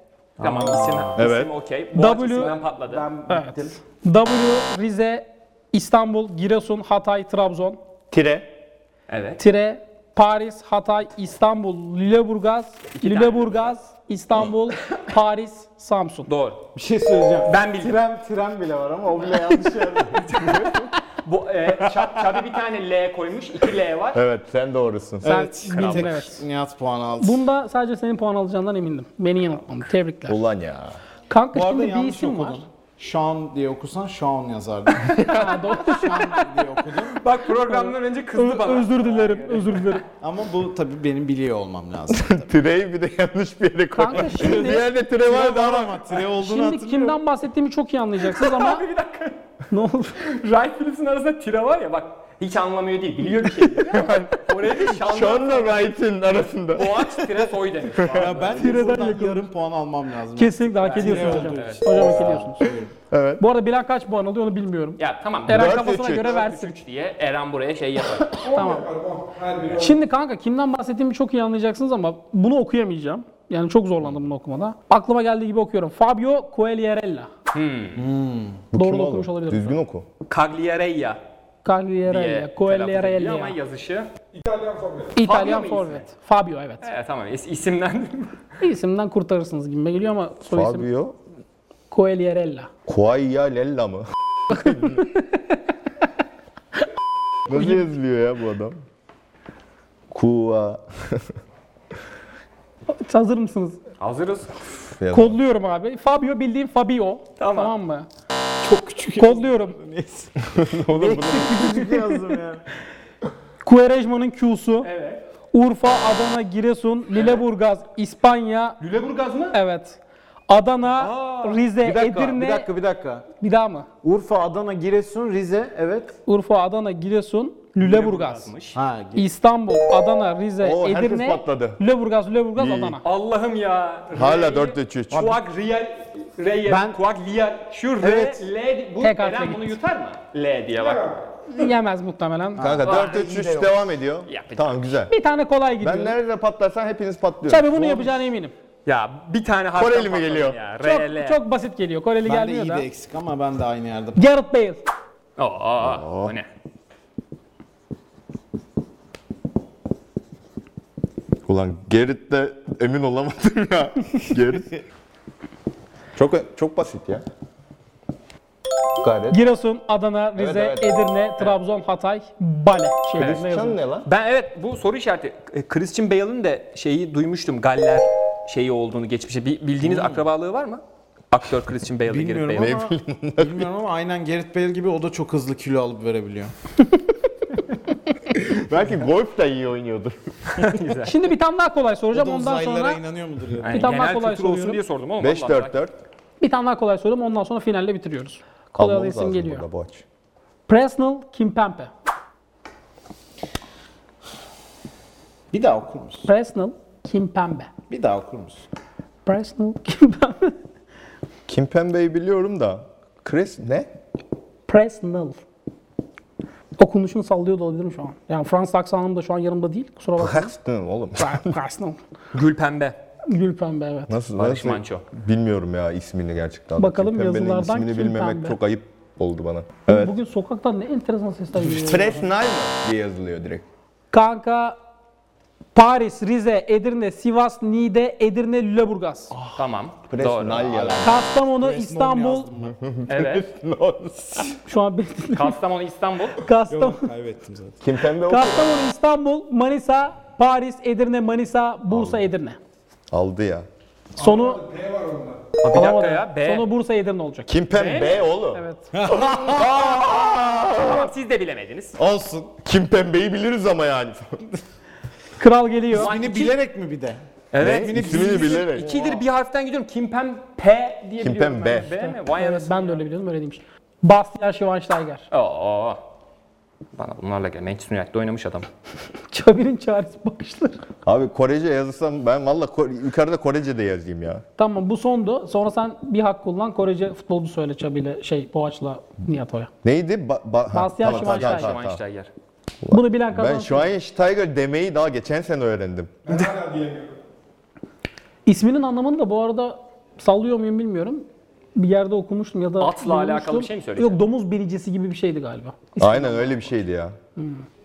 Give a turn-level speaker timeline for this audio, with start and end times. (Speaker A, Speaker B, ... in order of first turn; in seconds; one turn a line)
Speaker A: 0.4-1.2
Speaker B: 0.4-3.1
Speaker C: 1.2-1.5
Speaker D: 1.9-2.5
Speaker A: 2.4-3.8
Speaker D: 3.3-7.8
Speaker C: 8.1-8.5
Speaker B: 9.1-9.4
Speaker D: 9.4-16.3
Speaker B: 12.9-13.7
Speaker B: 16.3-16.6
Speaker A: 16.7-20.3
Speaker B: 17.4-18.0
Speaker B: 20.2-24.2
Speaker C: 24.1-25.3
Speaker A: 25.2-27.4
Speaker D: 25.2-26.4
Speaker B: 25.7-26.1
Speaker D: 27.2-30.4
Speaker C: 30.3-31.0
Speaker D: 31.3-32.6
Speaker A: 31.5-37.2
Speaker D: 35.2-36.5
Speaker B: 37.2-40.0
Speaker D: 37.5-40.0
Speaker A: 40.2-42.4
Speaker C: 42.1-46.1
Speaker D: 43.9-44.9
Speaker A: 44.1-47.2
Speaker D: 46.3-48.8
Speaker B: 48.2-49.4
Speaker D: 49.7-50.2
Speaker B: 50.2-55.9
Speaker C: 53.6-57.1
Speaker B: 56.7-58.8
Speaker C: 58.0-58.3
Speaker A: 58.1-62.9
Speaker D: 58.5-59.5
Speaker D: 60.4-62.7
Speaker B: 60.8-62.3
Speaker C: 63.1-63.4
Speaker D: 63.4-66.7
Speaker B: 65.0-68.5
Speaker C: 65.5-66.4
Speaker D: 68.2-69.0
Speaker A: 69.3-69.8
Speaker D: 69.8-77.3
Speaker B: 77.5-78.1
Speaker A: 78.0-78.7
Speaker C: 78.7-80.1
Speaker D: 78.8-79.8
Speaker B: 80.3-81.2
Speaker D: 81.6-83.6
Speaker B: 82.1-84.1
Speaker D: 85.2-86.8
Speaker B: 85.2-86.1
Speaker B: 86.8-88.5
Speaker D: 88.6-90.9
Speaker C: 90.5-91.2
Speaker D: 91.9-92.7
Speaker C: 92.9-95.0
Speaker C: 97.5-98.8
Speaker C: 100.1-101.2
Speaker D: 102.9-103.8
Speaker B: 104.0-104.5
Speaker C: 105.0-105.4
Speaker D: 105.1-108.1
Speaker B: 107.4-107.8
Speaker A: 108.6-110.4
Speaker D: 109.2-109.8
Speaker C: 110.5-111.7
Speaker D: 110.9-112.3
Speaker A: 111.4-112.6
Speaker D: 113.6-114.9
Speaker B: 114.8-115.2
Speaker D: 115.5-118.8
Speaker B: 117.2-117.4
Speaker B: 118.8-119.6
Speaker D: 119.5-122.7
Speaker B: 121.0-121.6
Speaker A: 121.8-123.3
Speaker D: 123.4-123.9
Speaker A: 124.0-126.2
Speaker D: 126.3-128.5
Speaker B: 127.8-128.8
Speaker A: 128.7-129.3
Speaker D: 129.2-133.0
Speaker C: 130.6-131.8
Speaker C: 132.6-133.0
Speaker B: 133.0-141.2
Speaker C: 134.1-135.4
Speaker A: 136.7-137.0
Speaker A: 138.0-138.5
Speaker D: 139.0-139.8
Speaker D: 141.5-142.8
Speaker A: 142.6-143.8
Speaker C: 142.6-145.1
Speaker B: 142.8-143.3
Speaker B: 144.3-145.0
Speaker D: 145.1-146.2
Speaker C: 145.8-148.2
Speaker D: 147.4-148.5
Speaker B: 148.9-151.4
Speaker C: 149.8-150.6
Speaker D: 150.8-152.9
Speaker A: 152.2-154.2
Speaker D: 154.2-154.8
Speaker B: 155.4-156.5
Speaker C: 155.8-156.3
Speaker C: 161.5-164.7
Speaker C: 166.2-167.2
Speaker C: 169.0-169.4
Speaker D: 169.3-173.8
Speaker C: 170.4-171.0
Speaker B: 173.2-173.4
Speaker C: 173.2-174.1
Speaker B: 174.0-182.8
Speaker A: 179.8-180.2
Speaker A: 182.1-186.5
Speaker C: 182.6-183.7
Speaker C: 188.3-190.2
Speaker B: 190.6-191.2
Speaker D: 191.0-193.0
Speaker A: 192.1-193.9
Speaker B: 193.7-195.8
Speaker D: 193.7-194.8
Speaker C: 195.2-196.0
Speaker D: 196.4-199.7
Speaker C: 198.8-200.0
Speaker D: 200.7-201.9
Speaker A: 205.5-206.3
Speaker D: 206.2-207.7
Speaker A: 207.9-208.7
Speaker D: 209.3-210.6
Speaker C: 211.5-213.9
Speaker D: 214.7-215.4
Speaker D: 216.8-220.5
Speaker C: 220.2-221.6
Speaker D: 221.2-222.0
Speaker B: 222.3-223.0
Speaker D: 223.3-224.2
Speaker C: 224.1-230.1
Speaker B: 224.3-225.1
Speaker D: 226.8-228.6
Speaker D: 229.9-232.3
Speaker C: 231.6-233.7
Speaker D: 234.1-234.8
Speaker D: 235.8-239.3
Speaker B: 239.5-240.9
Speaker C: 240.1-241.2
Speaker A: 240.7-242.8
Speaker D: 241.0-242.5
Speaker C: 242.8-244.6
Speaker B: 243.1-243.4
Speaker D: 244.7-245.6
Speaker B: 245.3-246.4
Speaker D: 246.4-247.1
Speaker A: 246.7-247.8
Speaker C: 247.8-248.8
Speaker D: 248.2-252.6
Speaker C: 251.9-252.3
Speaker C: 253.1-253.7
Speaker D: 254.2-254.9
Speaker B: 255.6-256.7
Speaker D: 255.7-257.5
Speaker C: 257.5-261.1
Speaker B: 257.7-258.3
Speaker D: 258.5-258.9
Speaker A: 258.9-259.9
Speaker B: 260.2-262.0
Speaker A: 262.0-262.5
Speaker C: 262.6-264.4
Speaker D: 265.4-266.4
Speaker A: 265.9-269.2
Speaker B: 265.9-266.5
Speaker B: 267.5-273.1
Speaker C: 267.6-268.9
Speaker C: 271.2-271.9
Speaker D: 271.8-275.3
Speaker B: 275.3-276.0
Speaker B: 276.9-278.7
Speaker D: 279.3-280.8
Speaker C: 281.1-284.4
Speaker D: 284.6-289.7
Speaker C: 289.8-292.0
Speaker D: 290.7-291.7
Speaker B: 291.1-292.3
Speaker C: 292.8-296.7
Speaker D: 292.9-293.9
Speaker D: 298.5-306.6
Speaker B: 302.8-304.1
Speaker C: 306.0-307.2
Speaker D: 307.4-307.6